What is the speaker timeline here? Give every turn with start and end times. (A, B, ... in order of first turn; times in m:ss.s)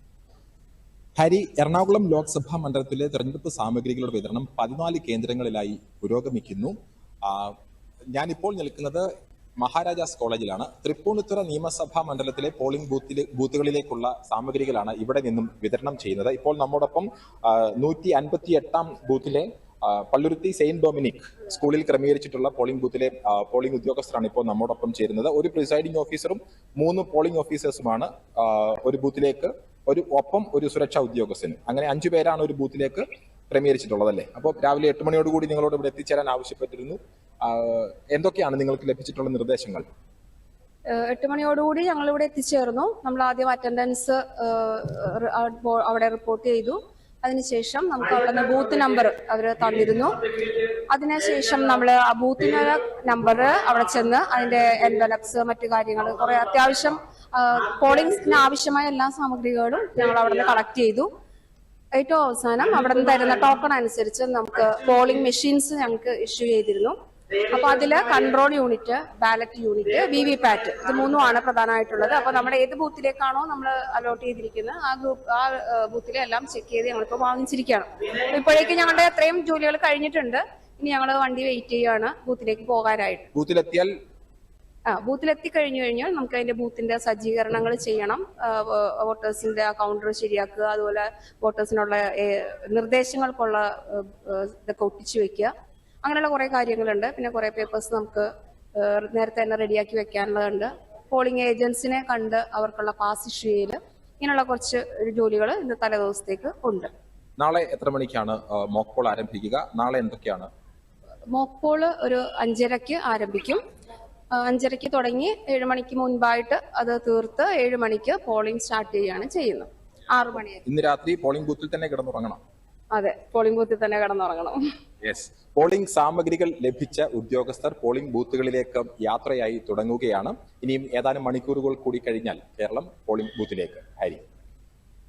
0:01.2-0:07.5 A
0:08.1-0:09.1 A
0:09.6-0:39.8 A
0:40.9-0:50.2 B
0:50.9-1:01.1 B
1:02.0-1:06.9 B
1:07.5-1:23.3 B
1:23.3-1:23.9 A
1:24.9-1:35.5 B
1:36.0-1:46.9 B
1:47.4-1:50.5 A
1:51.3-1:53.6 B
1:54.3-2:00.6 B
2:00.6-2:02.4 A
2:02.9-2:04.6 B
2:05.0-2:14.2 A